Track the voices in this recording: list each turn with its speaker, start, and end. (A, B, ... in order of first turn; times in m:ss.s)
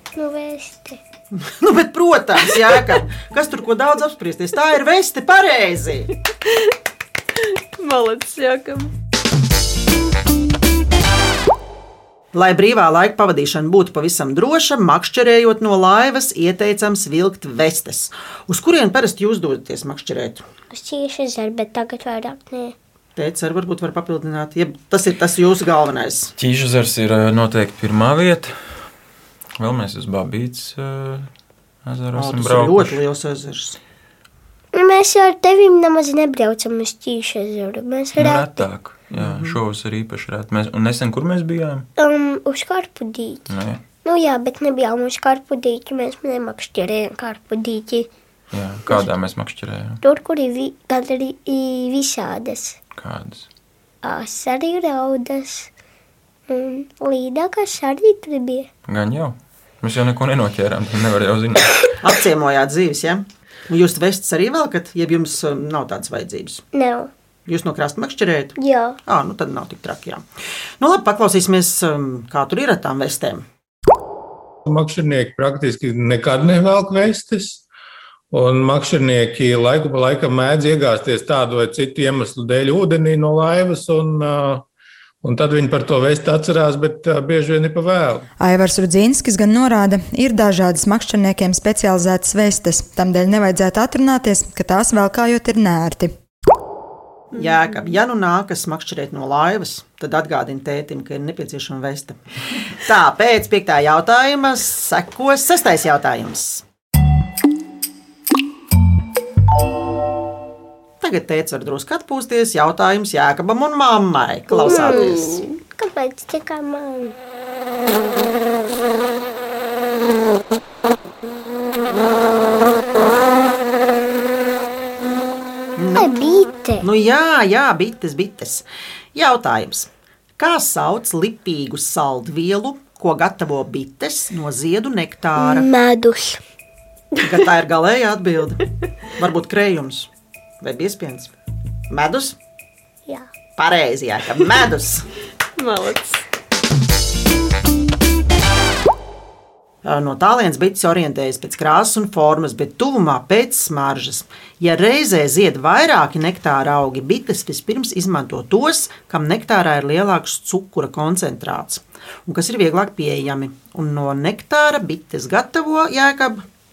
0:00.1-0:01.0 A
0:01.3-0:06.1 B
0:07.4-0:08.9 C
0:12.3-0:20.4 B
0:20.7-0:22.7 A
0:23.2-0:26.3 B
0:26.4-0:28.6 D
0:29.6-0:31.3 D
0:31.8-0:33.0 D
0:32.2-0:33.8 B
0:34.7-0:38.7 A
0:38.2-0:41.9 D
0:39.1-0:39.6 B
0:42.0-0:43.5 A
0:43.5-0:43.8 D
0:44.0-0:48.1 A
0:48.5-0:50.0 D
0:50.0-0:52.8 A
0:53.0-0:53.5 D
0:54.0-0:55.7 A
0:56.5-0:58.7 A
0:58.9-1:01.9 D
1:02.0-1:06.6 B
1:06.7-1:07.1 A
1:07.5-1:10.2 B
1:08.6-1:09.0 A
1:10.8-1:13.4 B
1:14.6-1:17.6 E
1:18.3-1:24.6 E
1:25.2-1:28.3 E
1:28.4-1:36.1 F
1:37.3-1:46.6 B
1:37.4-1:37.9 C
1:51.0-1:55.3 B
1:54.5-1:57.2 A
1:54.6-1:55.6 C
2:05.8-2:06.1 B
2:06.0-2:06.9 A
2:06.8-2:15.7 B
2:15.4-2:16.4 A
2:17.2-2:20.1 B
2:20.6-2:21.3 B
2:21.9-2:22.4 B
2:23.6-2:25.0 B
2:25.6-2:26.2 C
2:29.8-2:46.4 B